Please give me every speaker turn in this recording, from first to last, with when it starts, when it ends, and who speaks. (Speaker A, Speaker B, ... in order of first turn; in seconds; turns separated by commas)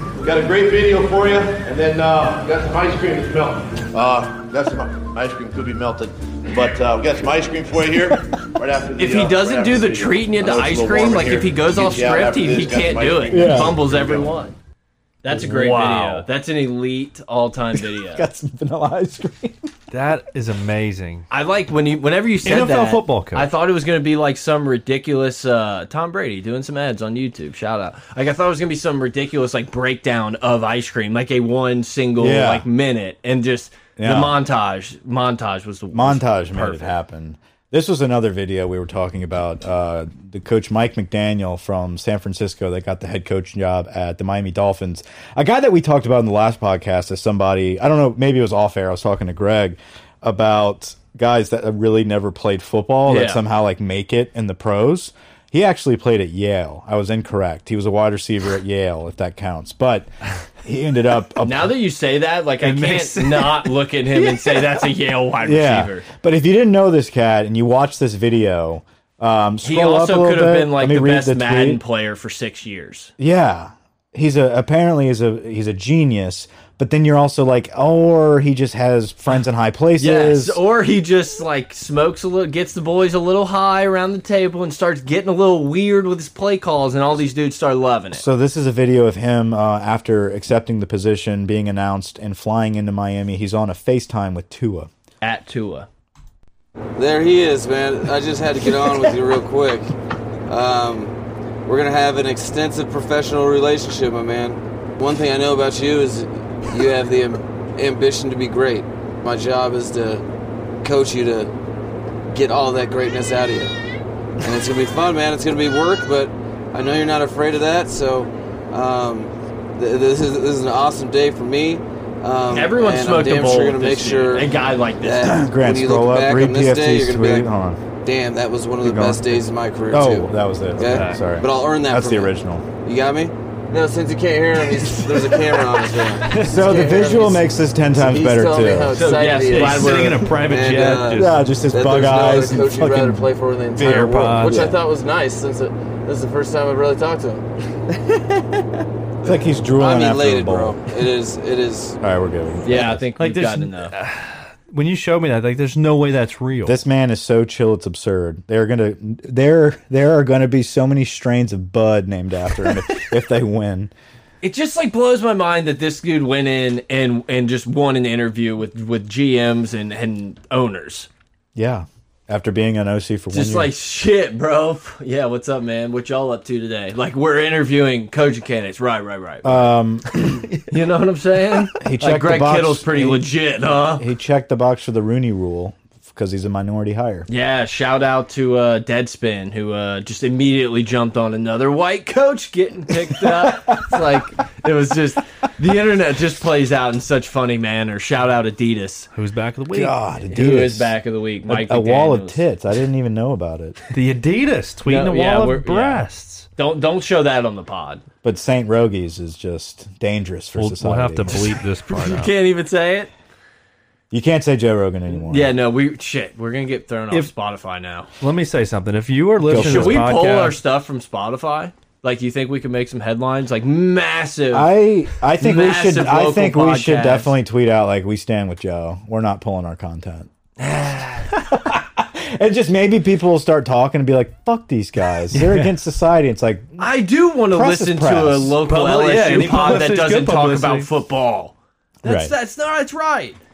Speaker A: 0.2-14.4, Speaker B: 9.0-14.5, Speaker C: 13.3-13.8, Speaker B: 15.2-18.3, Speaker D: 15.3-16.3, Speaker C: 17.9-19.7, Speaker D: 19.9-21.3, Speaker B: 21.3-37.0, Speaker D: 22.4-23.5, Speaker C: 32.2-32.7, Speaker C: 34.0-34.4, Speaker C: 35.9-60.1, Speaker B: 53.1-53.4, Speaker C: 60.6-61.8, Speaker B: 61.4-66.1, Speaker D: 62.6-64.9, Speaker C: 65.4-71.8, Speaker B: 69.6-73.1, Speaker C: 73.2-80.6, Speaker B: 80.0-88.2, Speaker C: 88.1-94.9, Speaker B: 95.2-95.9, Speaker E: 97.0-99.9, Speaker E: 100.5-101.2, Speaker E: 101.7-110.2, Speaker E: 110.8-111.5, Speaker E: 112.3-113.7, Speaker E: 114.4-127.5, Speaker B: 122.5-125.3, Speaker C: 125.2-127.8, Speaker E: 128.0-132.3, Speaker C: 128.8-132.7, Speaker D: 130.8-131.2, Speaker E: 132.8-147.4, Speaker D: 136.2-136.5, Speaker C: 136.3-139.0, Speaker B: 138.9-140.3, Speaker D: 139.5-141.4, Speaker C: 141.1-144.6, Speaker D: 143.8-144.8, Speaker C: 149.2-150.8, Speaker E: 149.8-152.0, Speaker C: 152.0-153.1, Speaker B: 152.6-153.9, Speaker D: 153.2-156.8, Speaker C: 156.7-163.9, Speaker B: 164.4-171.1, Speaker C: 171.6-173.7, Speaker B: 173.3-184.1, Speaker C: 179.4-180.5, Speaker C: 181.8-183.3, Speaker C: 184.0-187.3, Speaker B: 187.3-199.1, Speaker C: 193.3-194.0, Speaker D: 199.1-200.0, Speaker C: 199.7-200.9, Speaker B: 200.3-202.4, Speaker C: 201.4-203.8, Speaker D: 203.9-206.5, Speaker B: 204.9-206.1, Speaker B: 206.6-208.0, Speaker C: 208.2-211.5, Speaker D: 210.6-212.3, Speaker B: 211.9-213.1, Speaker C: 214.1-215.5, Speaker B: 215.3-218.1, Speaker D: 218.2-220.6, Speaker C: 219.5-220.2, Speaker B: 219.5-224.7, Speaker C: 224.5-230.3, Speaker B: 225.4-227.3, Speaker B: 230.6-231.4, Speaker C: 231.4-236.9, Speaker D: 235.3-235.7, Speaker B: 236.8-243.4, Speaker C: 237.5-238.6, Speaker D: 238.7-240.9, Speaker C: 242.0-242.3